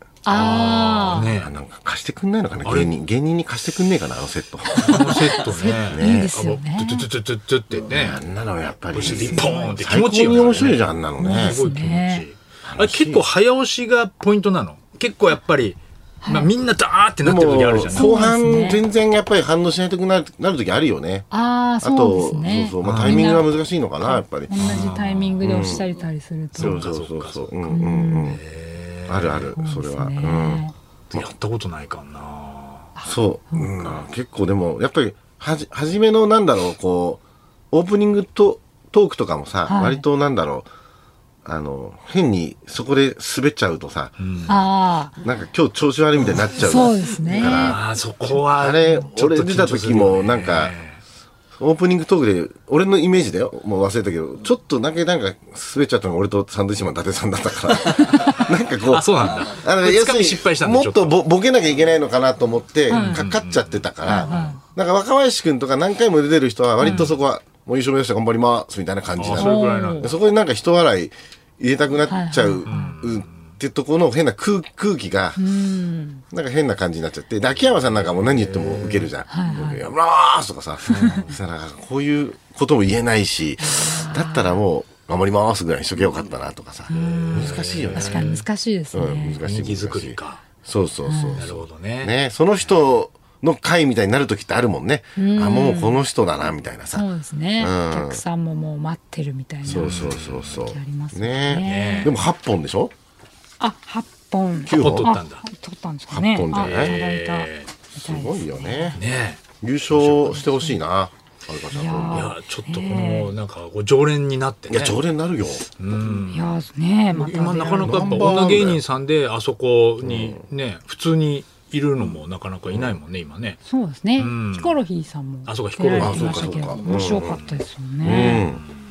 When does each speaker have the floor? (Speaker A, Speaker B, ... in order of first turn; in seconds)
Speaker A: 0.2-1.3, 4.8-7.1, 9.0-9.8, 11.2-12.2, 16.2-16.5, 17.9-18.8, 21.3-23.5, 24.0-26.9, 27.6-28.4, 29.6-30.7, 33.0-33.8, 39.7-40.0, 44.5-45.1, 46.5-47.8, 62.9-63.2, 64.0-64.6, 66.8-67.1, 69.3-70.1, 72.1-73.0, 75.4-76.2, 79.3-79.8, 80.9-81.2, 83.6-84.6, 86.9-89.4, 91.0-91.4, 95.2-96.0, 96.9-102.1, 103.6-109.0, 110.4-110.8, 111.7-113.3, 116.3-118.4, 123.7-128.5
Speaker B: 0.3-1.5, 2.6-2.9, 4.8-8.2, 8.9-18.4, 22.8-23.5, 24.6-25.8, 26.6-27.4, 28.1-29.5, 31.1-32.9, 44.2-44.5, 47.3-51.0, 57.9-61.2, 62.9-64.6, 66.8-67.1, 69.2-70.1, 72.7-73.5, 78.1-79.1, 80.9-81.3, 86.9-88.4, 89.4-90.4, 91.3-92.1, 99.7-100.6, 101.5-102.2, 104.7-105.4, 106.5-107.7, 108.9-109.4, 109.9-110.2, 112.1-115.0, 115.8-116.6, 117.1-123.6, 124.2-124.7, 125.5-127.5, 128.0-128.7
Speaker C: 1.2-5.0, 5.8-6.3, 7.8-11.6, 12.6-13.2, 17.2-21.3, 21.8-24.5, 25.4-25.8, 26.6-28.4, 29.1-31.3, 33.0-40.7, 41.4-44.1, 45.2-47.8, 48.5-50.8, 51.6-75.4, 76.3-88.3, 88.9-97.1, 97.6-98.2, 99.6-102.9, 104.7-105.2, 106.1-107.0, 107.9-109.0, 109.6-112.3, 114.7-115.7, 117.8-118.8, 120.0-120.4, 126.0-127.4, 128.0-128.6